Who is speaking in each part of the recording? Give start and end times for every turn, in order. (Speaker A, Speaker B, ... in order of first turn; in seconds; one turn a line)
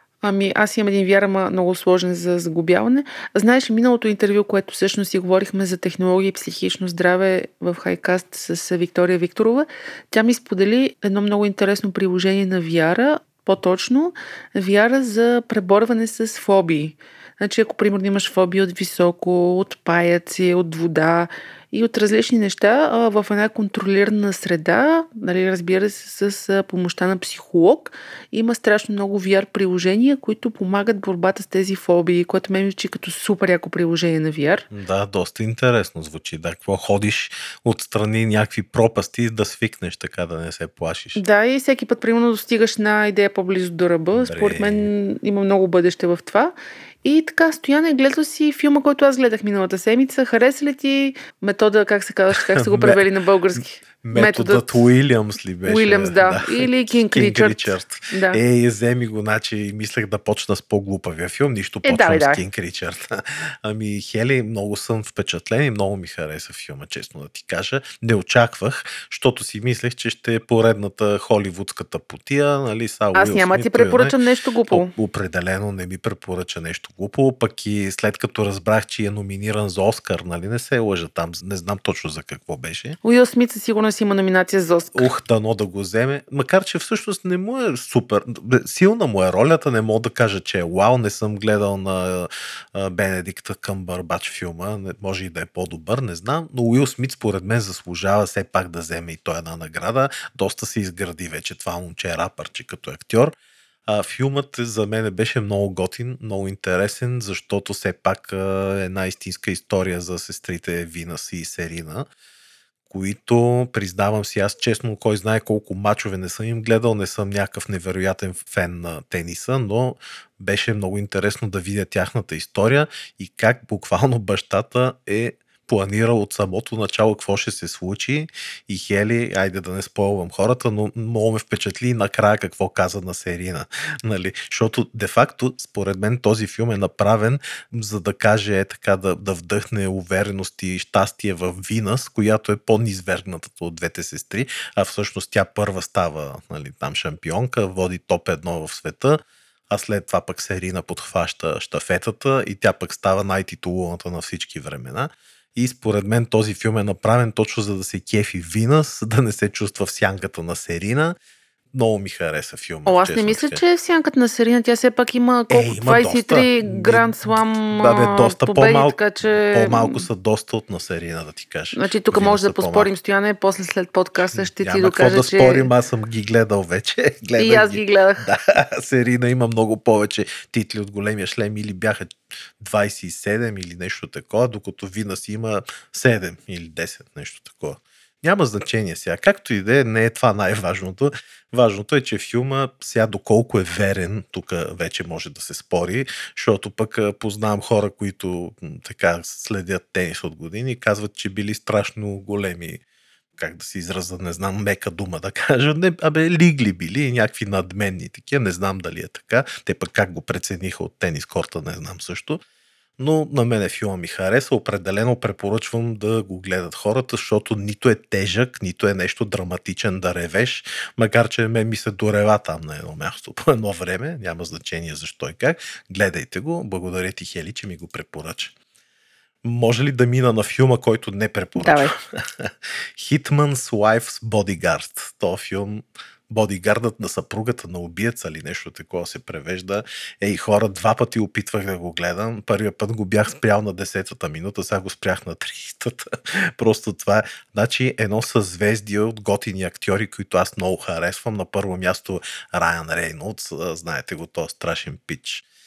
Speaker A: 0.2-34.6
Speaker B: 34.7-41.2
Speaker A: 41.1-54.7
Speaker B: 44.1-44.9
Speaker B: 52.4-53.0
Speaker B: 54.0-74.2
Speaker A: 55.6-58.4
Speaker A: 61.8-62.4
Speaker A: 73.1-74.9
Speaker B: 74.7-83.0
Speaker A: 83.0-85.1
Speaker B: 84.9-103.3
Speaker B: 103.9-112.1
Speaker B: 112.9-161.2
Speaker B: 161.7-163.6
Speaker A: 162.8-170.1
Speaker B: 165.5-172.9
Speaker A: 171.7-175.7
Speaker B: 174.3-202.8
Speaker A: 177.4-178.2
Speaker B: 203.4-212.4
Speaker B: 213.0-228.5
Speaker B: 229.4-255.4
Speaker A: 231.6-231.9